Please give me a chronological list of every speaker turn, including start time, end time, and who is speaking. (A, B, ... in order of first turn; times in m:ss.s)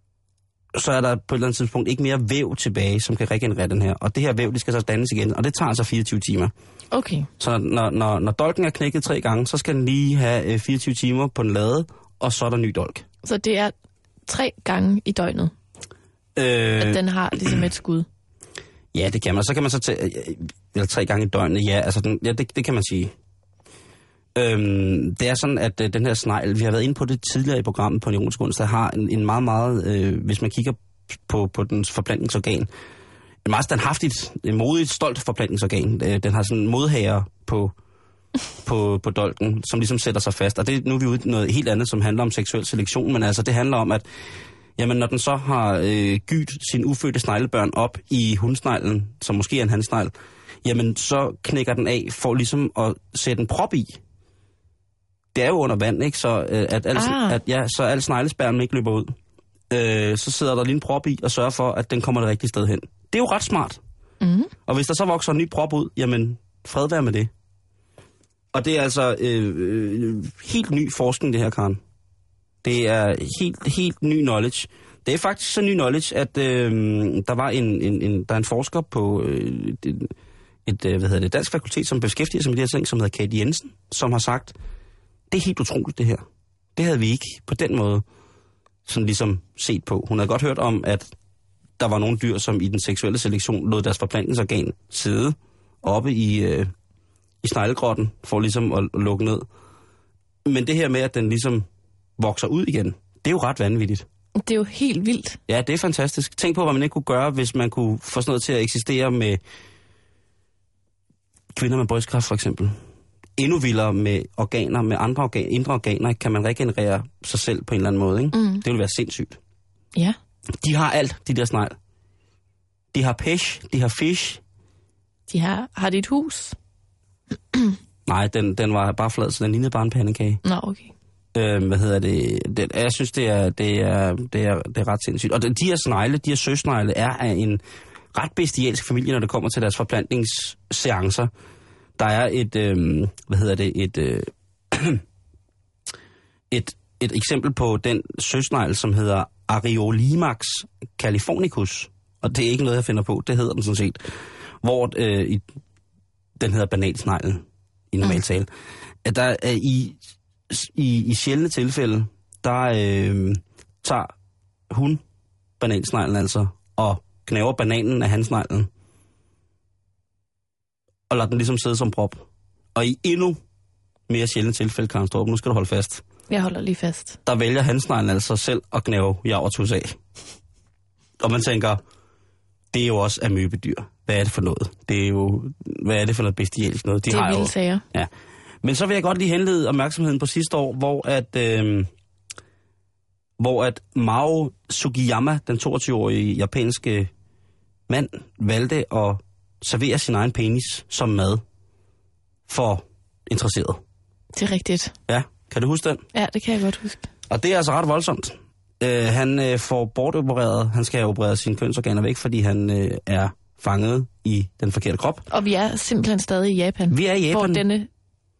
0:00.7-0:06.5 A
0:06.9-0:07.3 B
0:07.4-0:13.0 A
0:13.2-0:13.7 B
0:14.3-0:15.5 B
0:16.4-0:17.0 A
0:16.8-0:18.0 B
0:18.9-0:23.1 A
0:24.4-0:32.7 A
0:33.4-0:37.7 A
0:38.6-0:44.0 A
0:44.8-0:50.1 A
0:50.6-0:54.0 A
0:55.3-0:59.1 A
0:56.9-0:57.4 B
0:59.7-1:03.8 A
1:04.2-1:04.5 B
1:04.6-1:07.3 A
1:08.5-1:11.8 A
1:12.6-1:20.1 A
1:20.6-1:24.5 A
1:25.3-1:26.2 A
1:26.8-1:28.0 A
1:28.8-1:31.1 A
1:31.8-1:36.7 A
1:37.4-1:39.4 A
1:40.4-1:41.6 A
1:42.2-1:44.0 A
1:44.4-1:45.4 B
1:45.5-1:49.4 A
1:51.5-1:52.8 A
1:53.4-1:59.4 A
1:58.3-1:58.6 B
2:00.6-2:01.8 A
2:02.9-2:04.4 A
2:05.3-2:06.5 B
2:08.0-2:10.4 A
2:10.4-2:10.9 B
2:11.3-2:17.6 A
2:18.1-2:21.3 A
2:22.0-2:25.0 A
2:26.5-2:34.0 A
2:34.6-2:35.4 A
2:36.4-2:38.5 A
2:39.0-2:40.0 A
2:40.5-2:44.1 A
2:44.7-2:45.0 A
2:45.6-2:48.7 A
2:51.1-2:53.4 A
2:54.1-2:56.0 A
2:56.3-2:57.2 B
2:57.2-3:00.0 A
3:01.2-3:01.8 A
3:02.7-3:08.1 A
3:07.1-3:07.8 B
3:08.6-3:11.9 A
3:13.4-3:17.1 A
3:17.9-3:21.4 A
3:22.5-3:23.8 A
3:24.3-3:24.9 B
3:25.1-3:26.0 A
3:26.1-3:27.0 B
3:27.3-3:35.2 A
3:35.3-3:37.9 B
3:36.9-3:37.6 A